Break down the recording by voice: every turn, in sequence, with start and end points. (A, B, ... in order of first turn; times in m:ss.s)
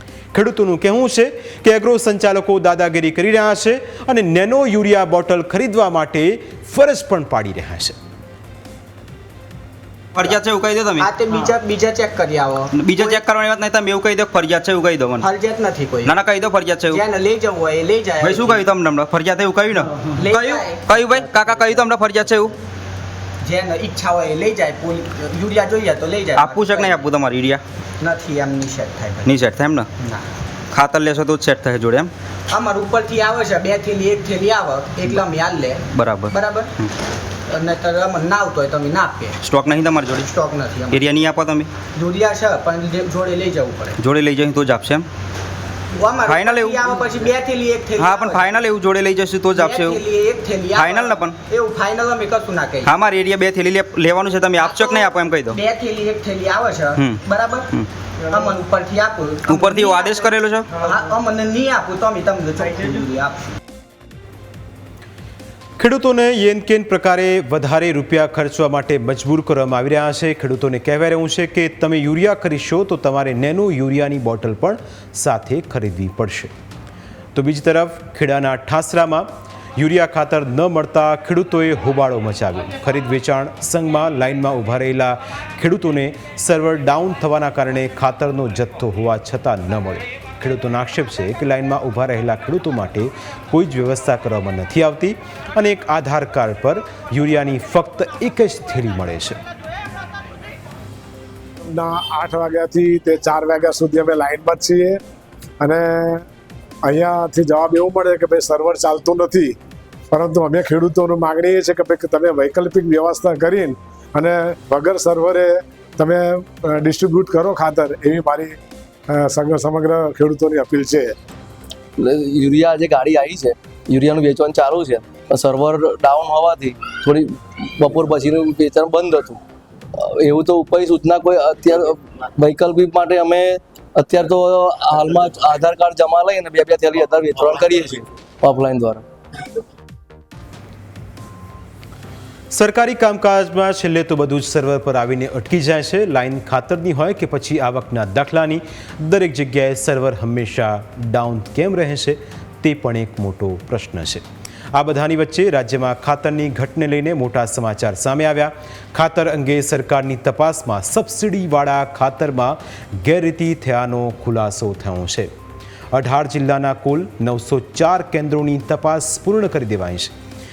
0:00.3-0:08.0 A
0:10.2-0:11.1 B
0:11.0-0:13.2 C
0:12.8-0:15.3 B
0:15.2-0:16.2 C
0:16.0-0:17.0 B
0:16.9-0:18.7 C
0:18.2-0:22.6 B
0:20.1-0:21.0 C
0:23.4-0:27.1 C
0:26.4-0:27.6 B
0:28.0-0:29.4 C
0:29.3-0:29.9 B
0:30.0-0:30.2 C
0:30.7-0:32.1 B
0:32.5-0:36.7 C
0:35.9-0:36.9 B
0:37.5-0:39.4 C
0:39.4-0:40.3 B
0:40.2-0:41.2 C
0:40.9-0:41.7 B
0:42.0-0:44.0 C
0:44.0-0:45.1 B
0:45.9-0:48.5 C
0:46.3-0:47.0 B
0:48.0-0:50.0 B
0:49.6-0:52.9 C
0:50.8-0:51.4 B
0:52.9-0:55.6 B
0:54.6-0:57.7 C
0:58.3-1:03.6 C
0:59.5-1:00.7 B
1:05.8-1:16.5 A
1:17.4-1:39.4 A
1:41.6-1:45.0 D
1:45.6-1:46.2 D
1:46.8-1:49.5 D
1:50.1-1:58.6 D
1:59.1-2:01.2 D
2:02.0-2:09.4 E
2:10.0-2:19.0 E
2:22.5-2:45.3 A
2:45.9-2:50.1 A